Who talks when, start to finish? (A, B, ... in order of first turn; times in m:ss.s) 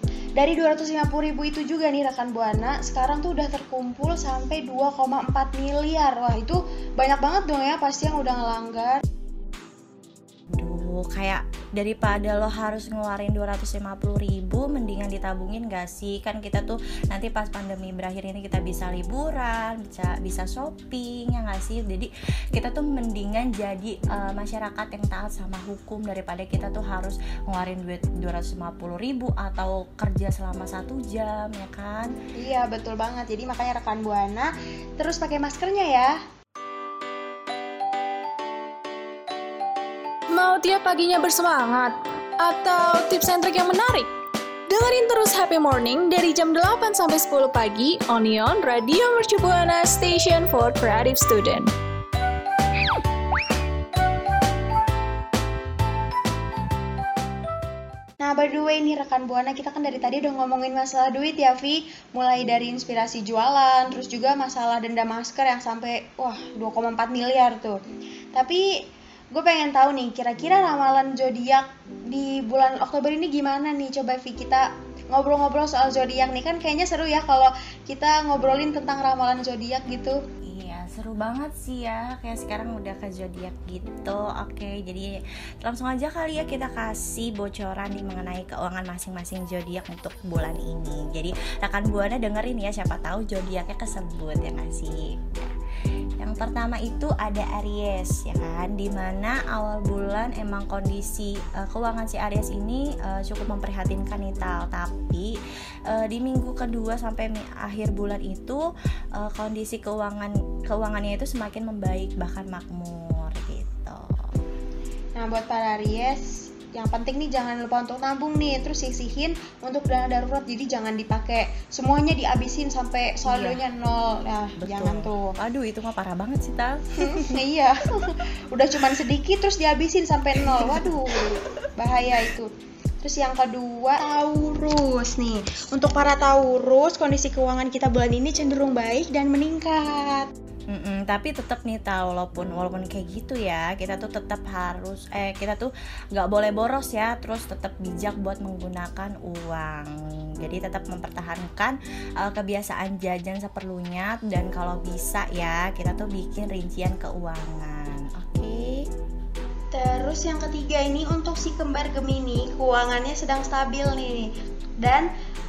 0:00.4-0:09.0 A
0:10.5-0:32.1 B
0:32.4-0:36.1 A
0:40.3-0:44.1 C
0:44.7-0:51.7 C
0:58.2-1:07.8 A
1:08.4-1:08.6 A
1:09.3-1:20.2 A
1:20.5-1:35.5 B
1:36.2-1:45.3 B
1:45.9-1:48.6 B
1:49.2-1:54.1 B
1:55.2-2:05.4 A
2:03.2-2:03.6 B
2:04.6-2:07.4 B
2:07.0-2:12.5 A
2:10.5-2:11.0 B
2:13.0-2:20.3 A
2:20.7-2:29.9 B
2:30.4-2:38.9 B
2:39.7-2:44.3 A
2:44.8-2:45.1 A